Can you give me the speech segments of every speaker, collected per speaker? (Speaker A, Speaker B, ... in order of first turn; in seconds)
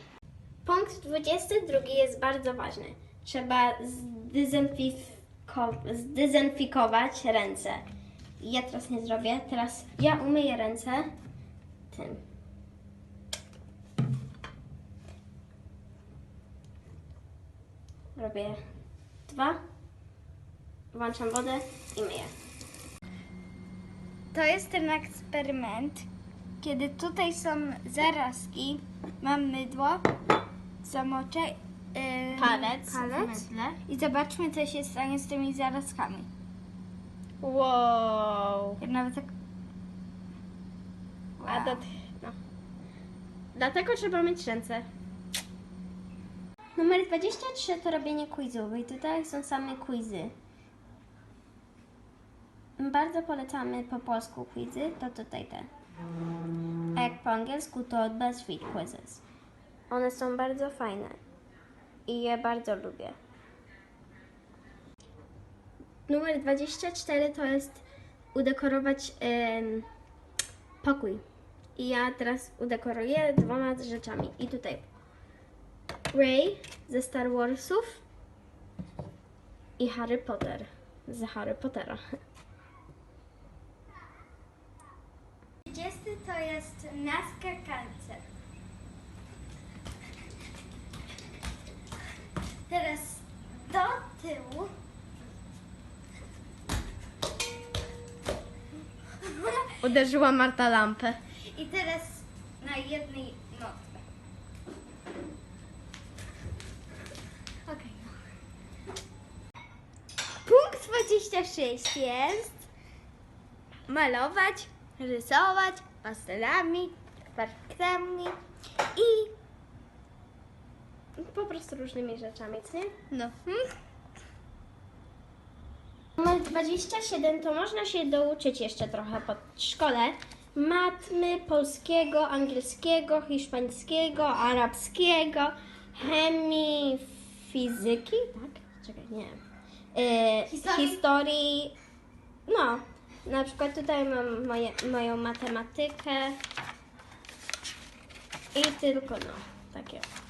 Speaker A: 0.7-7.8, 8.4-11.1, 11.9-12.2, 18.2-18.6, 19.3-19.6, 20.9-22.3, 32.4-33.8, 37.4-38.8, 41.5-42.4, 43.5-44.9, 46.8-50.3, 52.8-55.7, 57.0-59.2, 59.9-61.2, 62.1-63.2, 66.1-69.9, 70.8-71.2, 71.8-74.9, 76.1-78.0, 79.8-82.2, 99.8-101.2, 121.2-122.9, 126.2-139.4, 139.9-141.8, 142.5-146.4, 148.5-150.1
Speaker B: 24.3-26.1, 26.6-30.1, 30.8-36.3, 38.8-39.3, 41.4-41.9, 85.7-88.3, 92.7-94.7, 99.2-99.7, 101.5-104.0, 107.7-108.2, 110.5-112.6, 113.9-118.4, 119.0-119.3, 123.1-123.7, 140.5-141.0